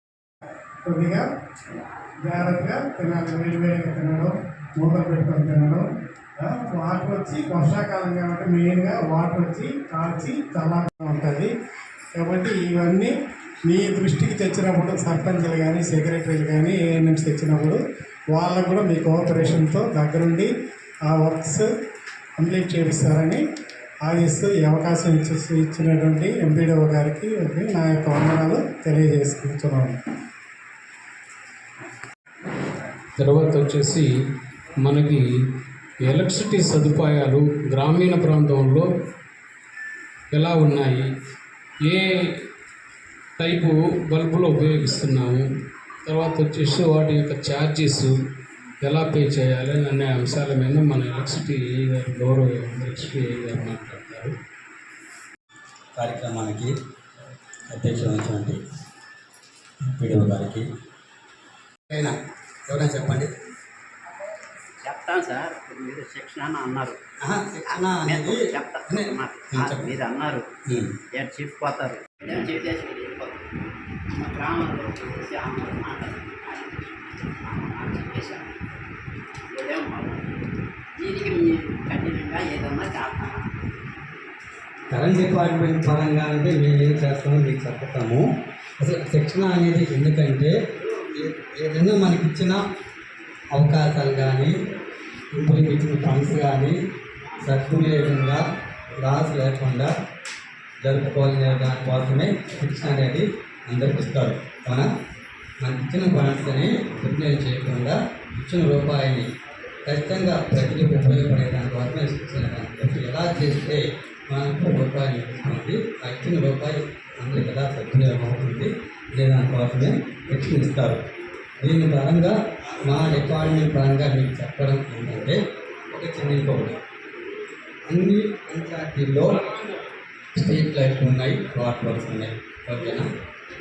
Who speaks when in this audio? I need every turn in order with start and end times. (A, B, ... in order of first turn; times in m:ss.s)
0:00.9-0:01.2 A
0:02.2-0:05.8 A
0:06.4-0:11.5 A
0:12.2-0:13.1 A
0:13.6-0:17.8 A
0:18.3-0:20.5 A
0:21.0-0:21.7 A
0:22.4-0:23.4 A
0:24.0-0:30.0 A
0:33.2-0:34.1 B
0:34.8-0:35.2 B
0:36.0-0:38.8 B
0:40.3-0:41.1 B
0:43.4-0:45.4 B
0:46.0-0:48.1 B
0:48.8-0:54.3 B
0:56.0-0:56.7 C
0:57.7-0:58.6 C
0:59.9-1:00.6 C
1:01.9-1:02.1 C
1:02.7-1:03.3 C
1:04.8-1:07.0 D
1:07.2-1:09.8 C
1:07.7-1:10.4 D
1:10.7-1:10.9 C
1:11.1-1:13.5 D
1:14.1-1:18.5 D
1:19.5-1:20.3 D
1:21.0-1:23.4 D
1:24.9-1:28.2 C
1:28.8-1:30.5 C
1:31.2-1:32.6 C
1:33.5-1:34.5 C
1:35.3-1:36.7 C
1:37.4-1:38.4 C
1:39.0-1:39.9 C
1:40.8-1:44.9 C
1:45.6-1:49.3 C
1:49.8-2:01.0 C
2:01.6-2:05.4 C
2:05.9-2:06.8 C
2:07.9-2:09.4 C
2:10.4-2:13.0 C